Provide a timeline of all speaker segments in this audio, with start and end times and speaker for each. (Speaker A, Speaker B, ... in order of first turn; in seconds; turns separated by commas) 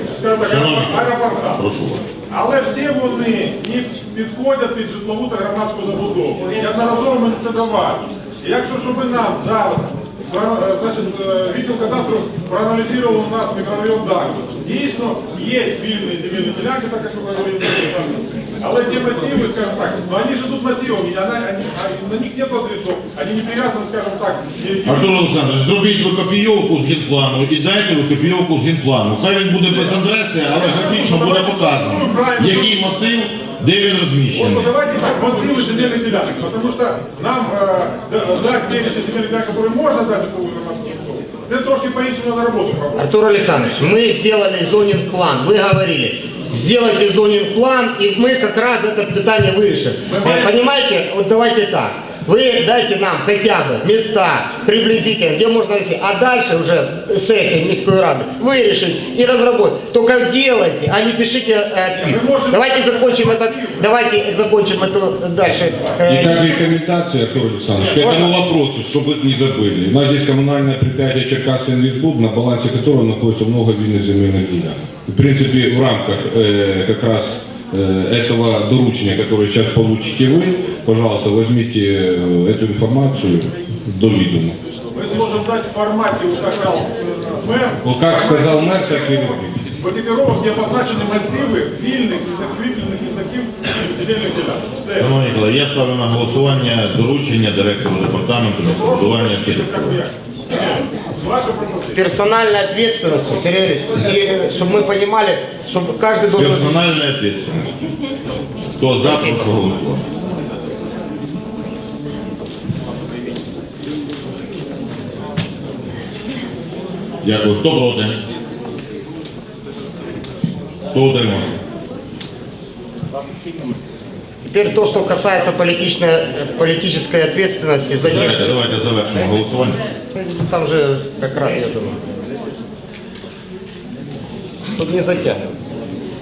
Speaker A: 0.2-1.5, Speaker B: 0.4-2.1, Speaker A: 2.3-24.9, Speaker B: 24.9-34.7, Speaker A: 30.7-32.7, Speaker A: 34.4-43.0, Speaker C: 43.0-66.6, Speaker A: 62.1-63.7, Speaker D: 66.1-84.6, Speaker C: 68.0-68.3, Speaker A: 84.9-87.8, Speaker D: 87.8-89.6, Speaker A: 88.5-95.0, Speaker B: 95.0-100.0, Speaker A: 98.8-100.0, Speaker A: 100.6-101.9, Speaker C: 101.9-106.8, Speaker B: 106.3-107.9, Speaker B: 108.8-110.0, Speaker C: 109.0-109.4, Speaker B: 117.2-118.2, Speaker B: 120.9-121.6, Speaker C: 124.4-128.4, Speaker B: 128.0-129.8, Speaker C: 130.1-132.0, Speaker C: 134.8-135.4